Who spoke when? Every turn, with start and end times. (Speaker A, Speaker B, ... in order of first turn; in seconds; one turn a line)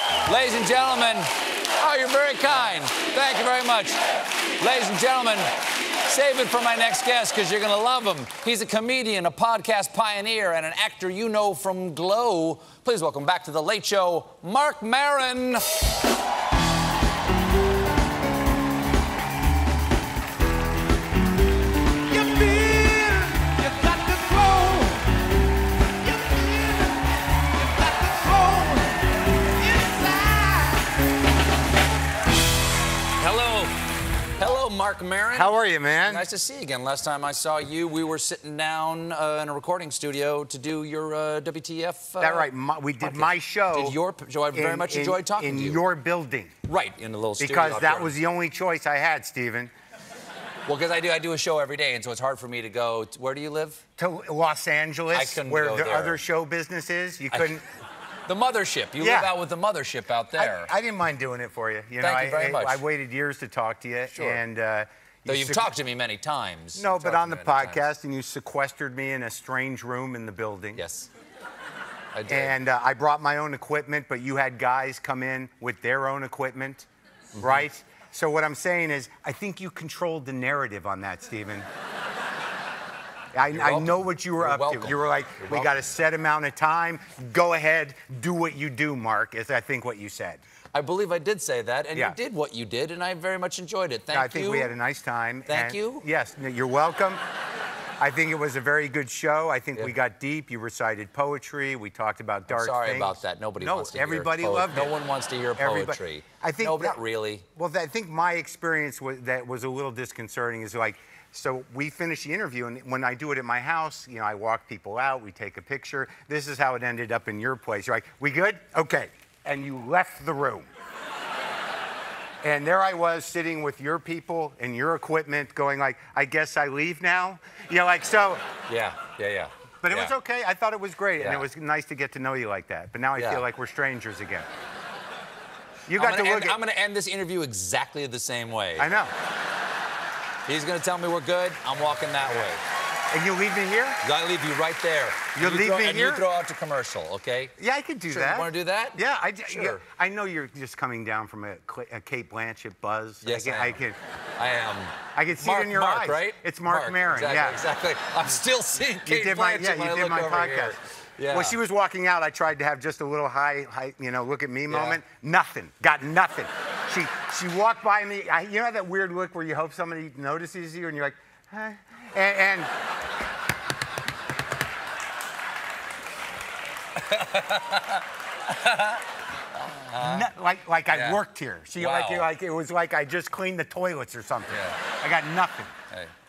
Speaker A: 0.2-1.2
Speaker A: 1.8-4.0
Speaker A: 4.6-5.4
Speaker A: 6.0-15.6
Speaker A: 22.1-25.1
Speaker A: 26.1-29.1
Speaker A: 29.6-31.0
Speaker A: 33.2-33.7
Speaker A: 34.4-35.5
Speaker B: 35.3-36.3
Speaker A: 36.0-45.8
Speaker B: 42.2-44.0
Speaker B: 44.5-46.5
Speaker A: 46.6-48.1
Speaker B: 47.4-49.7
Speaker A: 50.6-53.8
Speaker B: 54.0-57.6
Speaker A: 55.1-56.2
Speaker A: 57.3-57.6
Speaker A: 58.3-60.7
Speaker B: 59.0-59.3
Speaker B: 60.3-65.7
Speaker A: 62.0-62.8
Speaker A: 64.1-64.4
Speaker A: 65.2-67.8
Speaker B: 66.7-70.8
Speaker A: 70.8-71.1
Speaker A: 72.1-72.6
Speaker B: 72.3-81.7
Speaker A: 77.4-77.6
Speaker B: 83.3-90.4
Speaker A: 83.5-86.0
Speaker A: 90.7-94.7
Speaker B: 94.1-97.2
Speaker A: 95.5-96.0
Speaker B: 98.0-104.9
Speaker A: 102.5-107.4
Speaker B: 105.6-107.0
Speaker B: 107.5-120.7
Speaker B: 122.4-128.4
Speaker A: 128.7-130.1
Speaker B: 129.8-134.5
Speaker A: 131.2-131.5
Speaker A: 133.2-133.4
Speaker B: 135.9-136.6
Speaker A: 135.9-138.9
Speaker B: 138.8-139.1
Speaker A: 140.5-142.6
Speaker B: 143.1-144.0
Speaker A: 144.0-147.5
Speaker B: 145.3-146.3
Speaker B: 147.6-154.0
Speaker A: 148.1-149.8
Speaker A: 153.2-153.8
Speaker A: 154.4-161.6
Speaker B: 155.1-157.6
Speaker B: 159.0-172.7
Speaker A: 164.7-165.0
Speaker A: 176.9-179.0
Speaker A: 179.7-180.3
Speaker B: 180.0-185.7
Speaker A: 180.9-181.2
Speaker A: 181.8-182.3
Speaker A: 184.5-184.8